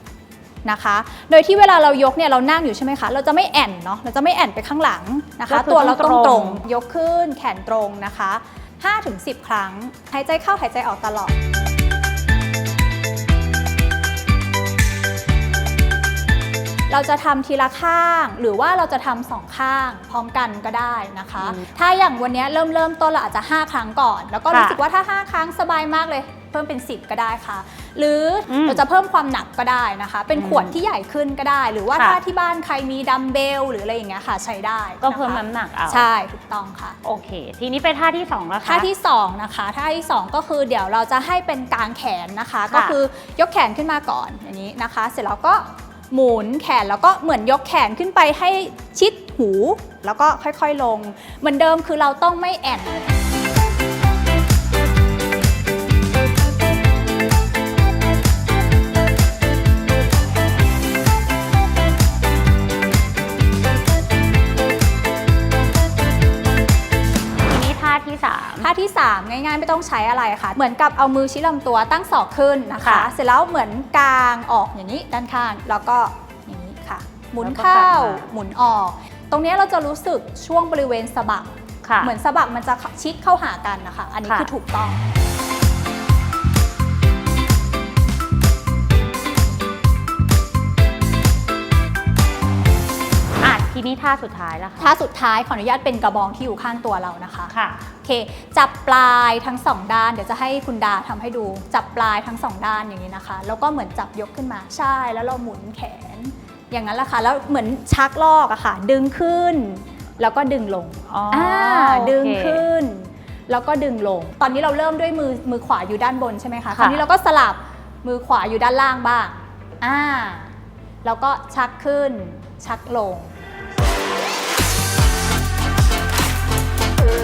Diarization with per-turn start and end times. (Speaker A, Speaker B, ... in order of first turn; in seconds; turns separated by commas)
Speaker A: 0.6-11.3, Speaker B: 5.5-6.6, Speaker A: 16.9-37.0, Speaker B: 21.4-21.7, Speaker B: 24.5-24.8, Speaker B: 28.5-28.8, Speaker B: 30.3-30.7, Speaker B: 35.0-36.1, Speaker B: 37.0-38.9, Speaker A: 38.6-53.1, Speaker B: 42.7-43.0, Speaker B: 67.4-68.7, Speaker A: 68.6-85.0, Speaker B: 72.8-73.1, Speaker B: 77.4-78.3, Speaker B: 81.8-82.1, Speaker B: 93.4-94.9, Speaker A: 94.8-97.5, Speaker B: 97.5-97.8, Speaker A: 98.0-120.5, Speaker B: 111.1-112.7, Speaker B: 116.7-117.0, Speaker A: 121.0-123.3